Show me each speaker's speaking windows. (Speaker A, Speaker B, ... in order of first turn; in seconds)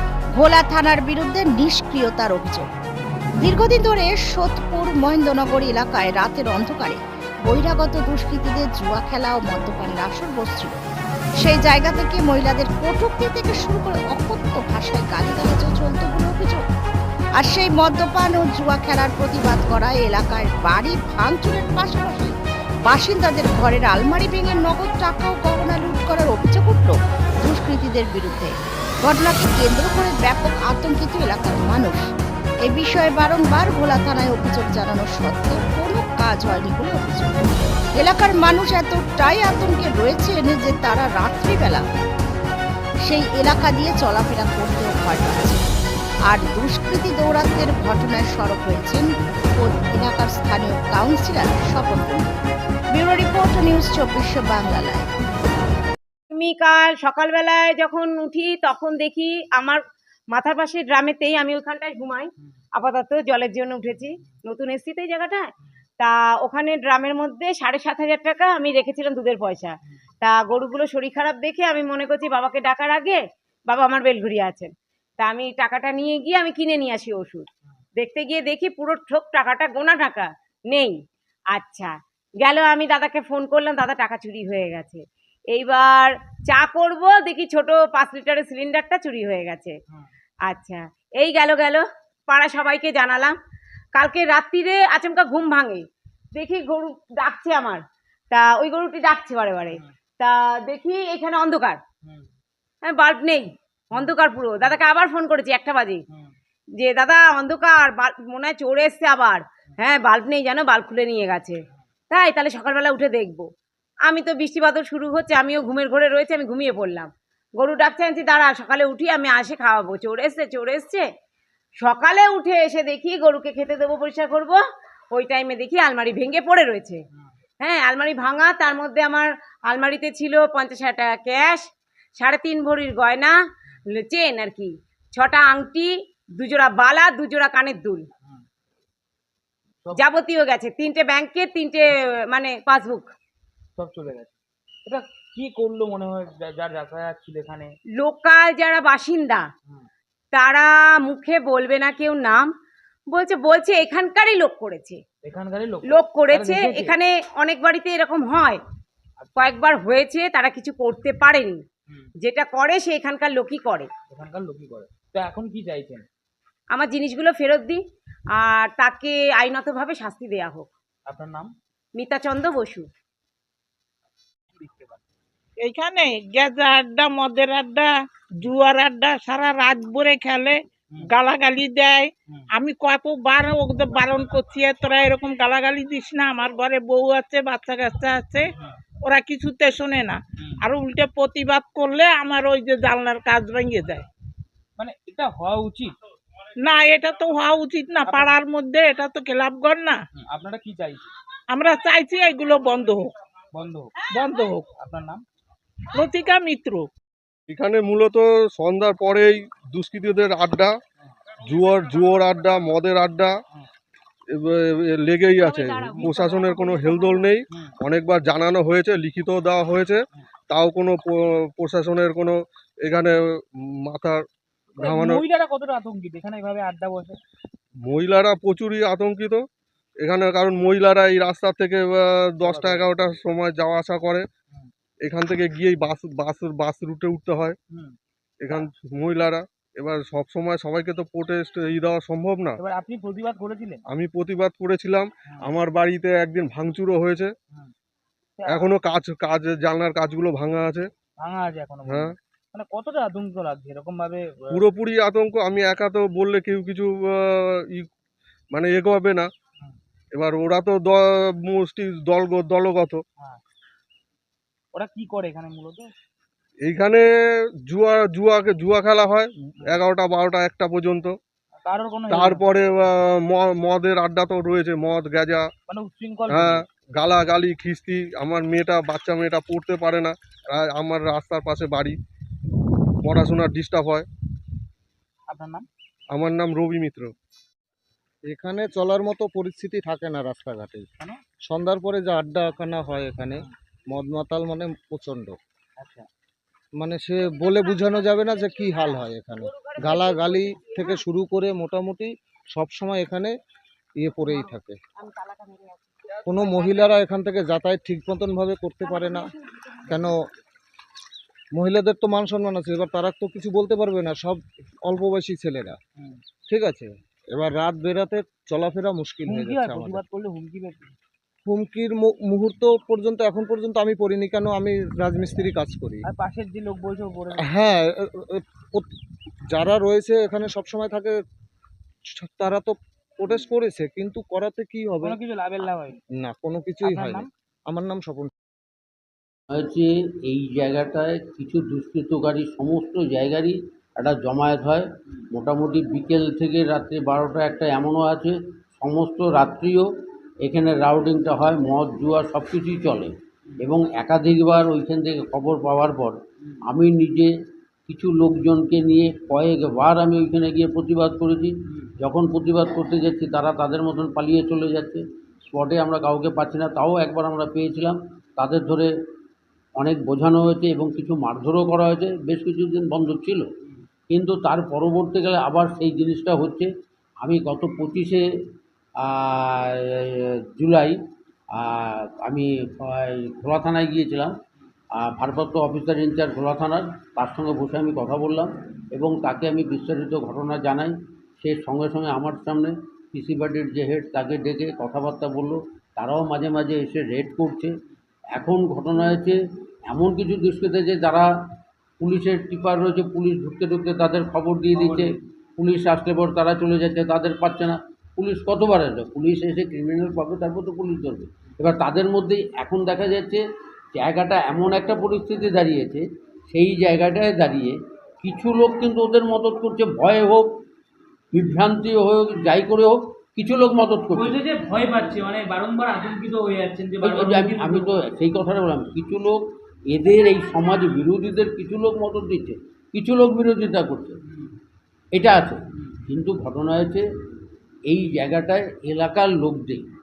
Speaker A: 0.3-2.7, 3.4-10.8, 11.4-16.6, 17.4-32.1, 32.6-41.9, 43.0-45.6, 46.3-52.3, 52.9-55.1
Speaker B: 56.3-59.8, 60.3-81.0, 81.5-89.8, 90.5-93.4, 94.0-95.8, 96.3-101.8, 102.8-106.0, 106.8-111.6, 112.1-113.5, 114.1-121.0, 121.8-124.6, 125.1-127.0, 127.6-131.7, 132.2-133.4, 134.0-138.1, 139.9-143.1, 148.0-149.5, 150.3-152.5, 153.1-155.0, 155.9-158.6, 159.4-161.6, 162.2-163.9, 166.7-167.8, 168.4-170.7, 172.0-172.9, 215.4-217.3, 298.5-301.0, 305.0-306.9, 308.9-309.7
Speaker C: 143.8-144.3, 144.9-147.8, 155.2-157.0, 164.1-166.1, 171.1-171.5, 174.6-175.0, 194.8-196.0, 198.0-198.4, 200.2-201.1, 203.5-203.9, 204.8-205.2, 224.8-227.2, 232.4-232.9, 242.6-243.8, 248.4-248.7, 251.2-254.6, 264.7-265.9, 271.6-272.5, 275.7-276.6, 285.3-285.7, 295.8-296.1, 319.3-320.9, 326.1-327.5, 335.0-336.0, 336.8-337.3
Speaker D: 175.6-188.5, 189.1-194.1, 196.6-200.0, 201.5-203.1, 204.1-204.7, 205.9-206.9
Speaker E: 207.5-210.7, 211.4-213.3, 214.3-223.2, 223.9-224.2, 224.8-225.3, 227.9-229.4, 230.0-234.3, 235.1-237.6, 238.4-242.6, 243.9-247.3, 248.5-250.9, 251.9-252.2, 254.5-257.9, 258.5-259.3, 260.1-263.0, 266.6-267.0, 267.7-271.2, 272.1-275.5, 276.3-282.0, 283.0-284.1, 286.1-287.1
Speaker F: 288.2-290.9, 291.5-295.4, 296.8-303.4, 304.0-304.8, 306.2-309.3, 309.9-310.2, 311.6-315.8, 316.5-320.0, 321.5-326.0, 327.4-328.9, 329.5-331.2, 332.1-335.2, 336.2-338.3
Speaker G: 339.5-349.9, 350.4-357.3, 357.9-368.9, 369.8-373.5, 374.1-376.7, 377.2-378.2, 379.0-381.0, 381.6-384.3, 385.0-397.7, 398.3-401.3, 402.0-413.4, 413.9-420.5, 421.3-424.4, 427.0-434.2, 435.1-437.1, 437.9-439.9
Speaker H: 424.1-427.9